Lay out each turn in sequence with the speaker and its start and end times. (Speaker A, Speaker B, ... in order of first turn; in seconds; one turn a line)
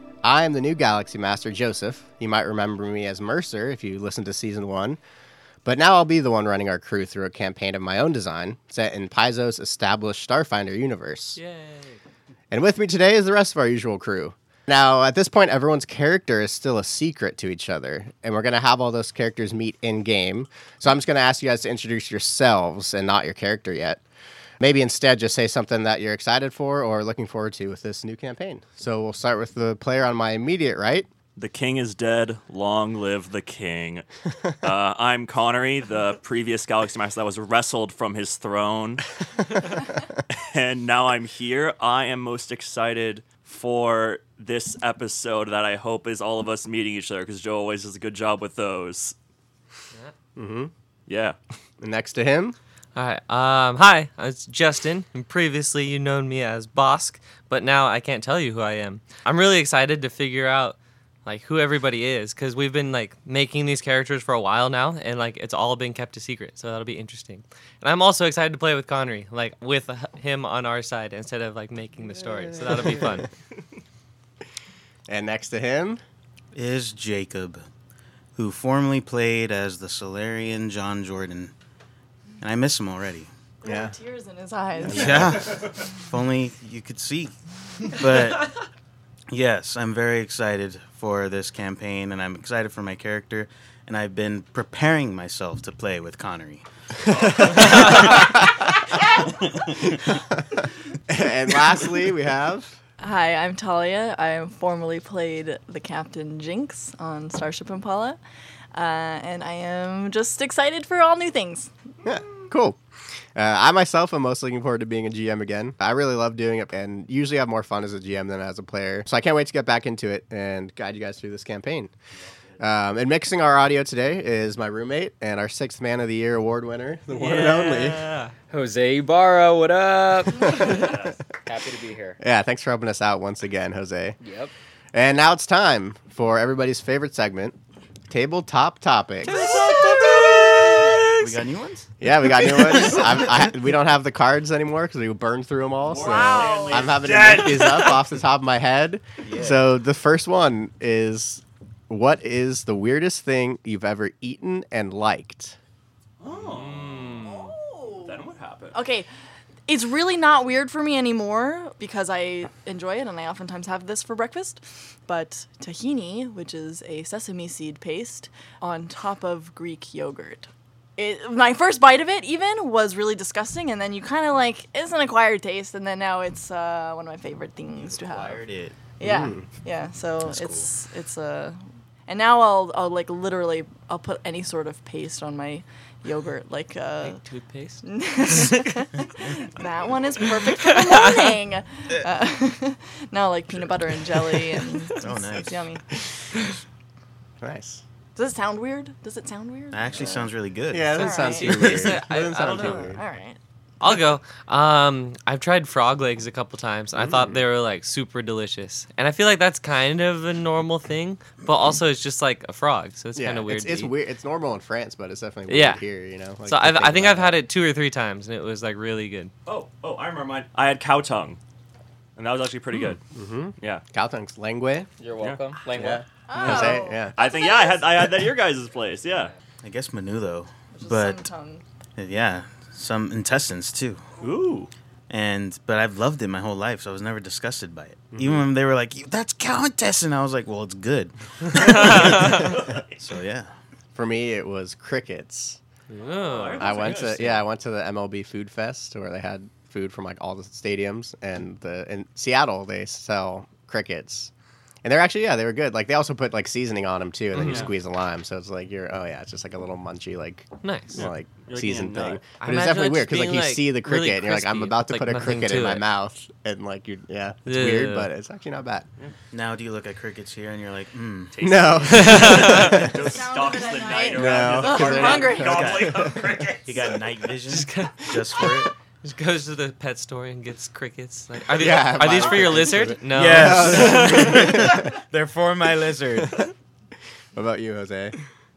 Speaker A: 0.2-5.0
Speaker A: 5.7-11.4
Speaker B: 11.4-12.0
Speaker A: 12.5-24.0
Speaker A: 24.6-31.1
Speaker C: 31.4-34.0
Speaker C: 34.6-39.8
Speaker C: 40.3-49.1
Speaker A: 50.4-50.7
Speaker C: 51.1-51.4
Speaker A: 51.8-52.6
Speaker B: 53.0-73.3
Speaker A: 75.1-76.0
Speaker D: 76.5-77.7
Speaker D: 78.4-81.5
Speaker D: 82.4-83.3
Speaker E: 83.6-85.3
Speaker A: 83.7-83.9
Speaker D: 84.8-87.3
Speaker A: 84.8-85.6
Speaker D: 87.8-88.5
Speaker D: 89.3-96.7
Speaker C: 97.1-98.1
Speaker D: 97.2-98.4
Speaker A: 97.6-98.2
Speaker D: 99.3-100.0
Speaker A: 101.1-102.8
Speaker E: 103.0-108.2
Speaker E: 108.7-111.7
Speaker A: 112.0-112.8
Speaker A: 113.3-121.9
Speaker C: 122.2-122.6
Speaker A: 122.6-128.0
Speaker B: 127.1-128.3
Speaker F: 128.5-132.2
Speaker C: 130.6-131.2
Speaker A: 132.2-134.2
Speaker F: 134.2-134.5
Speaker A: 134.9-137.6
Speaker A: 138.1-139.5
Speaker C: 139.3-141.1
Speaker B: 139.9-140.7
Speaker D: 141.2-141.9
Speaker A: 142.0-155.6
Speaker D: 142.5-143.1
Speaker C: 145.8-148.0
Speaker E: 146.0-146.9
Speaker D: 149.2-149.6
Speaker C: 156.2-157.3
Speaker B: 156.4-157.5
Speaker E: 157.2-158.2
Speaker C: 158.0-158.8
Speaker E: 158.8-159.1
Speaker E: 159.7-178.4
Speaker D: 177.8-178.9
Speaker E: 179.0-187.2
Speaker A: 179.0-179.4
Speaker D: 180.2-180.7
Speaker B: 187.1-188.7
Speaker E: 187.8-195.8
Speaker B: 190.5-191.2
Speaker D: 194.9-195.7
Speaker A: 197.4-197.8
Speaker E: 198.2-199.9
Speaker D: 199.7-201.9
Speaker A: 200.7-203.0
Speaker E: 201.0-201.6
Speaker B: 201.0-202.9
Speaker E: 202.4-203.4
Speaker B: 203.8-213.9
Speaker A: 206.9-207.4
Speaker A: 213.2-217.4
Speaker B: 215.5-215.8
Speaker B: 216.5-219.3
Speaker C: 219.5-221.4
Speaker C: 222.2-223.0
Speaker A: 223.1-224.9
Speaker F: 225.0-226.0
Speaker C: 225.2-225.6
Speaker A: 225.8-227.2
Speaker E: 226.3-227.9
Speaker C: 226.4-229.3
Speaker D: 229.6-231.3
Speaker E: 230.7-231.6
Speaker D: 232.0-234.1
Speaker C: 234.2-234.7
Speaker D: 235.1-243.5
Speaker A: 238.1-238.4
Speaker C: 241.9-242.8
Speaker A: 243.9-245.6
Speaker B: 245.9-246.7
Speaker C: 246.1-247.4
Speaker A: 246.6-254.3
Speaker A: 254.8-268.9
Speaker B: 257.4-257.7
Speaker C: 257.4-257.7
Speaker B: 260.6-261.1
Speaker C: 261.0-262.2
Speaker B: 262.4-265.9
Speaker B: 267.5-268.1
Speaker D: 269.3-272.8
Speaker C: 271.3-277.1
Speaker A: 271.4-273.1
Speaker B: 271.9-272.9
Speaker E: 273.0-275.7
Speaker A: 274.1-276.3
Speaker D: 275.3-278.7
Speaker B: 277.5-278.5
Speaker B: 279.0-284.6
Speaker A: 281.5-284.9
Speaker D: 282.2-286.5
Speaker A: 287.4-288.2